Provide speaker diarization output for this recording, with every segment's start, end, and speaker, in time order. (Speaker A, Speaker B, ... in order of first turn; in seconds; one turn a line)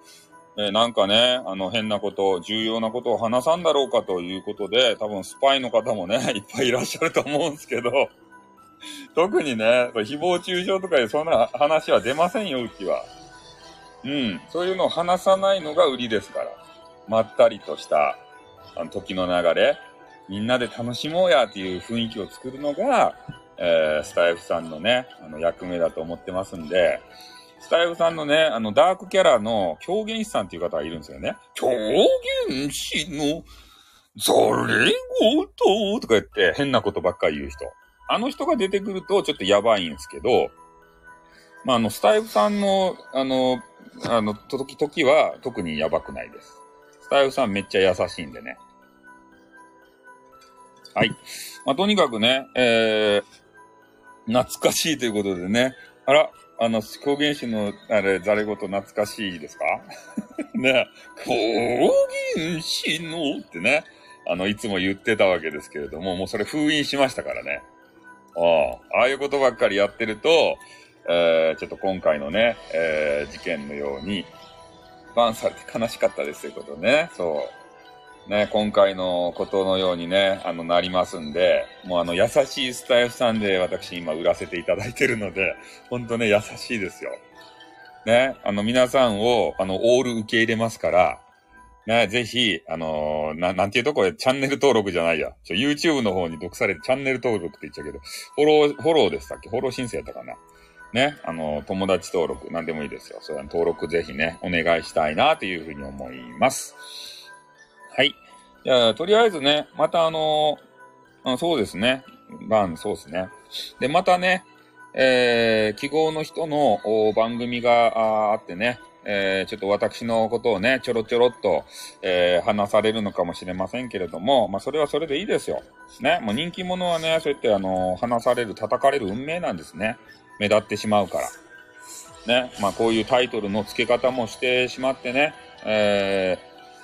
Speaker A: 0.6-8.1
Speaker A: 9.1-13.1
Speaker A: 14.0-18.2
Speaker A: 18.7-27.1
Speaker A: 27.6-33.5
Speaker A: 34.1-40.5
Speaker A: 41.6-48.6
Speaker A: 51.0-53.2
Speaker A: 54.3-59.9
Speaker A: 60.5-67.7
Speaker A: 68.3-74.3
Speaker A: 75.1-77.5
Speaker A: 78.3-87.2
Speaker A: 88.0-91.2
Speaker A: 91.9-100.4
Speaker A: 100.9-107.1
Speaker A: 107.9-110.6
Speaker A: 111.2-131.3
Speaker A: 132.2-136.4